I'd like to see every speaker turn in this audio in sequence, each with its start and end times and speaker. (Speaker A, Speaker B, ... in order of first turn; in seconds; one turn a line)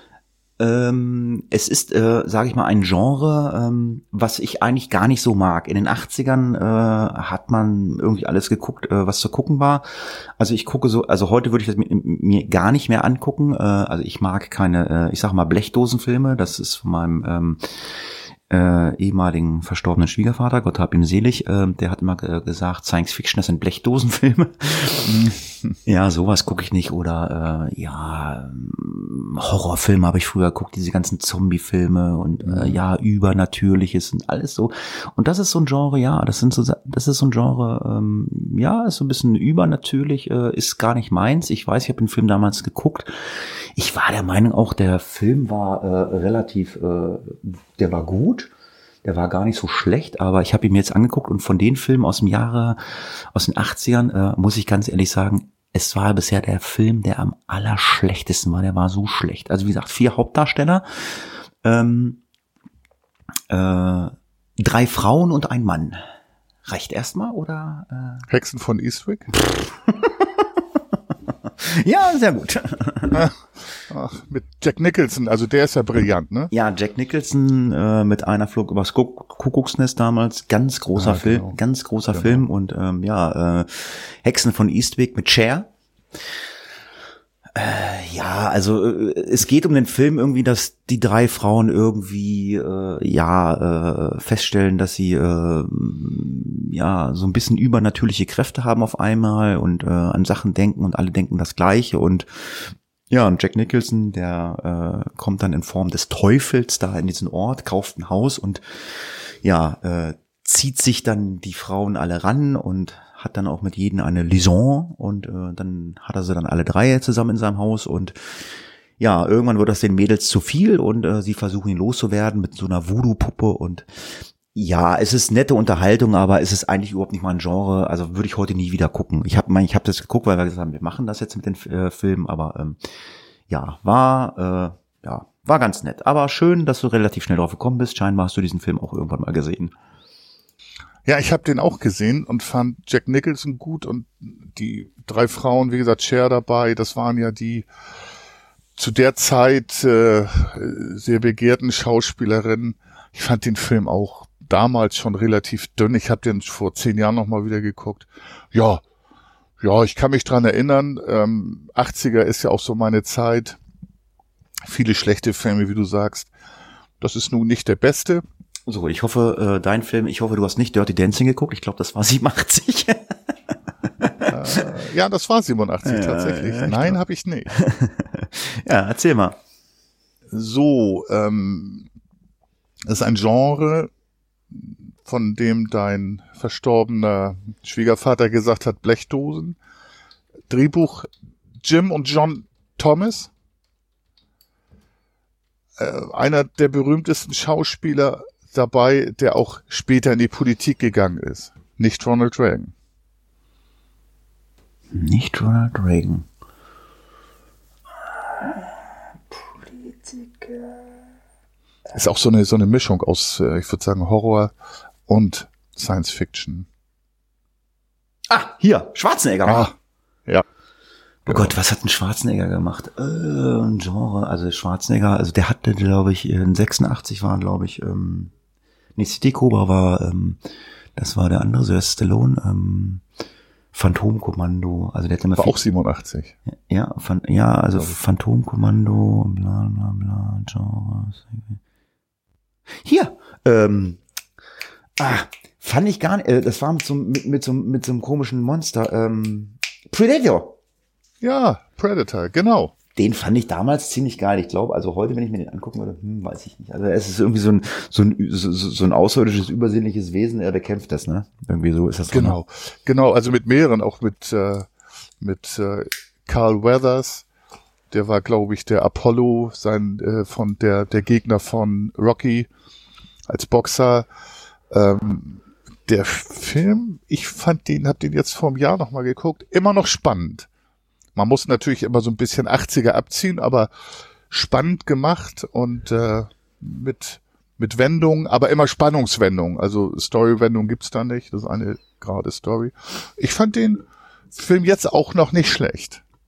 Speaker A: 0.6-25.3
Speaker B: 25.1-25.4
Speaker A: 25.9-48.5
Speaker B: 32.5-32.8
Speaker A: 49.0-62.2
Speaker A: 63.5-66.0
Speaker A: 66.7-68.3
Speaker B: 68.3-69.3
Speaker A: 69.3-73.3
Speaker B: 73.9-76.5
Speaker A: 76.5-85.7
Speaker B: 81.0-81.6
Speaker B: 82.1-82.4
Speaker A: 87.5-132.9
Speaker A: 133.5-139.7
Speaker B: 141.1-147.7
Speaker B: 148.8-158.8
Speaker B: 159.6-163.6
Speaker B: 164.7-166.3
Speaker B: 167.0-168.2
Speaker A: 168.7-174.7
Speaker B: 174.3-177.6
Speaker A: 175.8-177.0
Speaker A: 177.5-179.4
Speaker B: 180.3-181.9
Speaker B: 182.9-183.9
Speaker B: 184.5-189.6
Speaker B: 190.5-191.1
Speaker B: 191.6-193.3
Speaker B: 195.8-202.7
Speaker A: 204.9-206.3
Speaker A: 208.4-208.7
Speaker A: 209.3-210.8
Speaker B: 211.9-214.5
Speaker B: 215.1-216.7
Speaker A: 218.3-219.7
Speaker B: 219.4-219.7
Speaker A: 221.3-228.3
Speaker B: 221.3-221.5
Speaker A: 229.0-230.4
Speaker A: 231.0-233.0
Speaker A: 233.7-235.6
Speaker B: 235.4-236.4
Speaker A: 236.7-241.6
Speaker A: 242.8-244.0
Speaker A: 245.0-250.6
Speaker B: 251.2-252.7
Speaker A: 253.0-262.4
Speaker B: 262.1-264.7
Speaker B: 265.2-267.2
Speaker B: 267.9-272.5
Speaker B: 273.3-274.1
Speaker B: 274.7-280.5
Speaker B: 281.2-283.7
Speaker B: 284.3-296.0